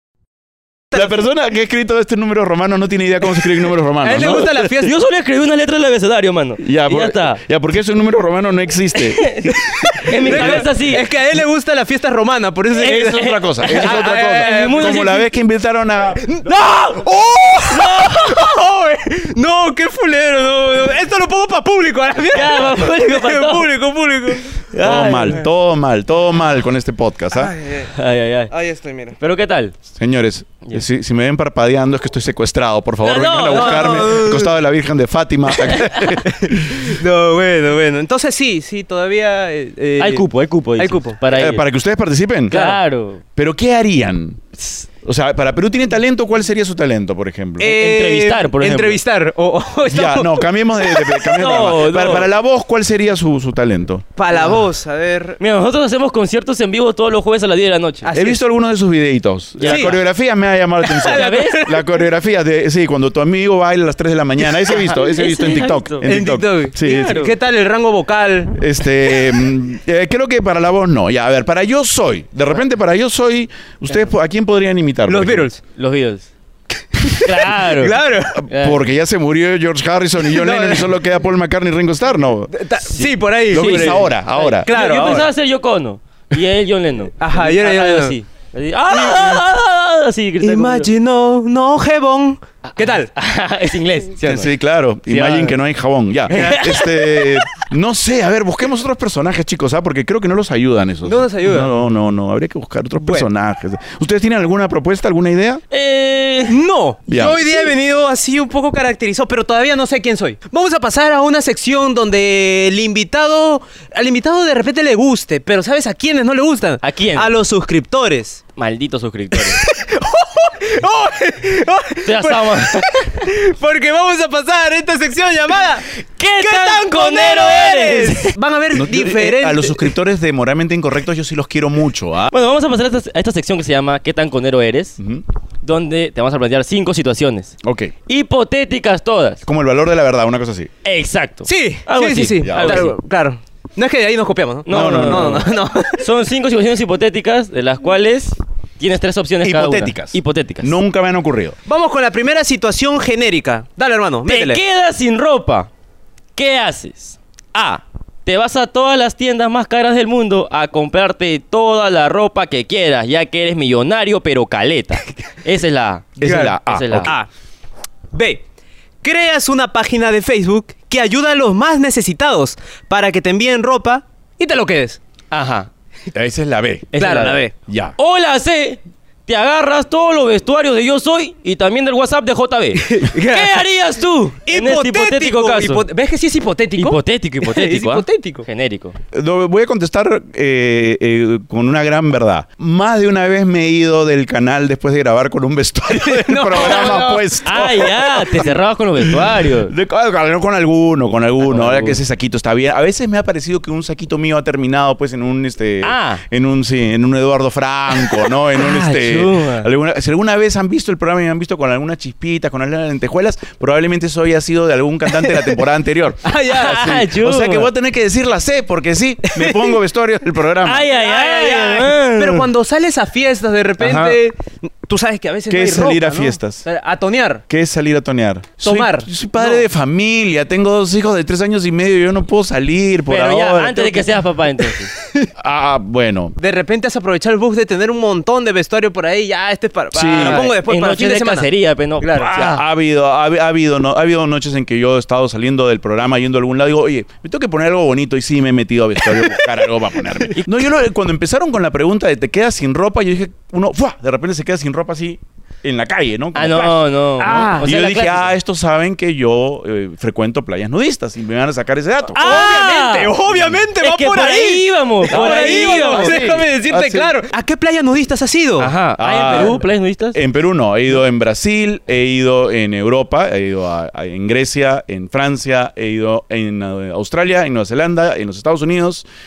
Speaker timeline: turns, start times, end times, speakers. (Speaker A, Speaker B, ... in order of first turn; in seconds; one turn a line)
Speaker A: 0.9-4.5
Speaker B: 4.0-4.9
Speaker C: 4.1-7.4
Speaker A: 6.6-9.3
Speaker C: 9.1-11.1
Speaker B: 9.6-15.0
Speaker A: 10.3-10.6
Speaker A: 12.8-16.3
Speaker C: 12.8-15.3
Speaker B: 16.2-24.6
Speaker C: 17.7-18.4
Speaker C: 22.3-23.7
Speaker C: 24.7-25.4
Speaker A: 24.8-27.5
Speaker B: 27.3-27.9
Speaker C: 27.9-28.5
Speaker B: 28.5-29.1
Speaker C: 29.2-29.7
Speaker A: 29.9-36.9
Speaker C: 33.0-34.2
Speaker B: 33.5-34.5
Speaker B: 36.2-40.2
Speaker C: 40.0-41.6
Speaker B: 40.8-41.2
Speaker A: 41.3-42.8
Speaker C: 42.5-43.2
Speaker B: 42.5-42.8
Speaker A: 43.4-47.7
Speaker B: 47.6-52.2
Speaker C: 47.6-49.0
Speaker A: 49.9-54.0
Speaker C: 51.2-52.3
Speaker B: 54.1-55.4
Speaker C: 55.4-58.0
Speaker B: 58.0-58.4
Speaker A: 58.1-67.3
Speaker C: 59.6-60.0
Speaker B: 59.6-60.0
Speaker B: 60.8-62.0
Speaker C: 61.0-61.7
Speaker B: 64.7-65.1
Speaker C: 64.9-66.1
Speaker B: 66.0-69.5
Speaker A: 68.5-75.5
Speaker B: 75.0-75.6
Speaker C: 75.7-76.3
Speaker B: 77.0-78.4
Speaker C: 77.1-78.8
Speaker A: 78.3-85.2
Speaker B: 80.3-80.9
Speaker B: 82.5-85.3
Speaker C: 83.5-90.9
Speaker B: 87.2-88.2
Speaker B: 88.9-89.4
Speaker B: 90.4-93.1
Speaker C: 92.8-94.5
Speaker A: 94.2-105.6
Speaker C: 95.1-95.6
Speaker B: 96.3-96.7
Speaker C: 96.3-97.4
Speaker B: 101.0-101.7
Speaker B: 103.0-103.3
Speaker C: 105.7-106.5
Speaker B: 106.5-118.4
Speaker A: 107.1-107.5
Speaker C: 116.8-117.3
Speaker C: 118.6-119.6
Speaker B: 119.3-125.9
Speaker C: 122.0-123.1
Speaker C: 126.2-128.3
Speaker B: 126.4-129.9
Speaker A: 128.7-132.3
Speaker C: 132.3-135.0
Speaker C: 135.6-137.6
Speaker A: 137.6-137.9
Speaker C: 138.1-139.4
Speaker A: 139.4-140.7
Speaker C: 140.8-142.9
Speaker B: 141.5-146.0
Speaker A: 142.4-142.9
Speaker C: 144.7-150.7
Speaker A: 144.7-145.5
Speaker A: 149.4-151.6
Speaker B: 151.7-154.6
Speaker C: 154.2-155.7
Speaker C: 156.3-167.1
Speaker A: 166.2-167.1
Speaker B: 166.2-167.3
Speaker B: 168.1-168.4
Speaker B: 169.0-175.0
Speaker C: 175.3-175.7
Speaker A: 176.1-176.9
Speaker C: 176.9-177.4
Speaker B: 176.9-177.5
Speaker A: 177.7-177.9
Speaker C: 178.0-185.9
Speaker B: 182.7-183.6
Speaker B: 184.4-188.4
Speaker C: 186.8-188.9
Speaker A: 189.1-220.8
Speaker B: 195.9-197.4
Speaker C: 196.5-199.7
Speaker C: 201.5-202.0
Speaker C: 205.8-206.2
Speaker C: 208.5-209.7
Speaker B: 215.2-215.6
Speaker B: 216.2-217.0
Speaker C: 216.5-217.7
Speaker B: 219.3-219.8
Speaker C: 220.6-222.5
Speaker B: 220.9-227.4
Speaker C: 223.8-224.2
Speaker A: 225.5-226.6
Speaker A: 227.5-234.1
Speaker B: 228.6-229.6
Speaker C: 233.1-234.9
Speaker B: 235.0-235.3
Speaker A: 235.3-236.3
Speaker B: 236.4-241.5
Speaker A: 239.9-240.5
Speaker C: 239.9-242.6
Speaker B: 242.0-242.5
Speaker A: 242.2-262.4
Speaker C: 256.3-258.3
Speaker B: 257.2-257.6
Speaker B: 262.1-268.7
Speaker C: 262.2-263.1
Speaker C: 263.8-266.4
Speaker A: 265.1-267.1
Speaker C: 268.6-270.2
Speaker A: 269.0-279.1